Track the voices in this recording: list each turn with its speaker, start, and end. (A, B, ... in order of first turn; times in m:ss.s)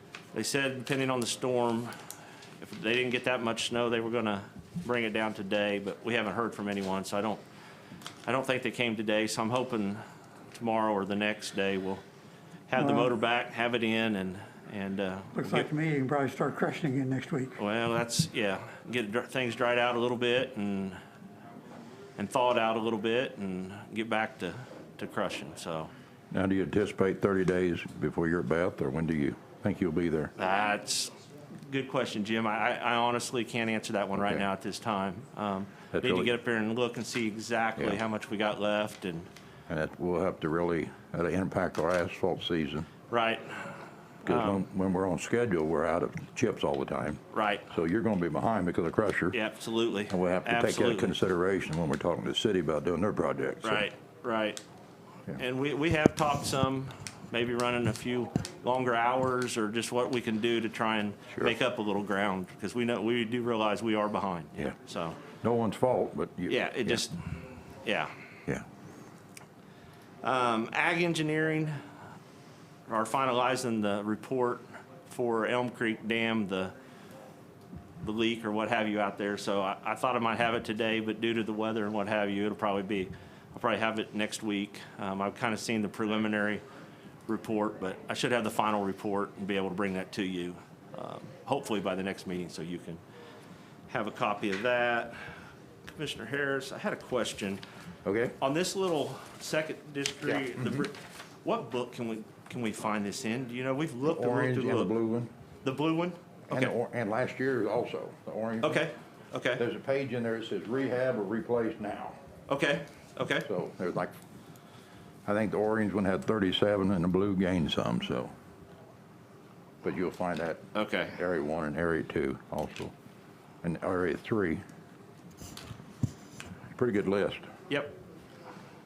0:00.3-0:01.9 A
0:02.6-0:07.4 A
0:08.2-0:10.0 A
0:10.5-0:12.0 A
0:12.7-0:15.7 A
0:12.8-0:13.1 B
0:15.4-0:17.6 B
0:17.6-0:21.0 A
0:22.2-0:25.9 A
0:26.3-0:30.3 C
0:30.4-0:31.1 A
0:31.7-0:39.3 A
0:34.2-0:34.4 C
0:35.9-0:36.3 C
0:39.7-0:42.9 C
0:43.1-0:44.6 A
0:44.2-0:49.4 C
0:47.3-0:47.7 A
0:49.3-0:51.2 A
0:50.1-0:53.9 C
0:53.6-0:54.6 A
0:55.3-1:05.2 A
1:05.4-1:07.0 C
1:06.5-1:08.1 A
1:10.2-1:11.8 A
1:12.9-1:16.7 A
1:18.0-1:26.6 A
1:27.3-1:33.0 A
1:33.9-1:35.2 A
1:35.8-1:37.6 A
1:38.0-1:38.4 C
1:38.4-1:44.9 A
1:40.3-1:40.8 C
1:44.1-1:45.3 C
1:45.6-1:46.7 A
1:46.5-1:48.8 C
1:48.6-1:49.6 A
1:49.6-1:52.2 C
1:52.5-1:53.5 A
1:53.4-1:54.1 C
1:55.2-1:58.3 C
1:59.8-2:02.9 C
2:00.7-2:01.2 A
2:03.6-2:04.6 C
2:06.7-2:07.5 C
2:07.7-2:07.9 A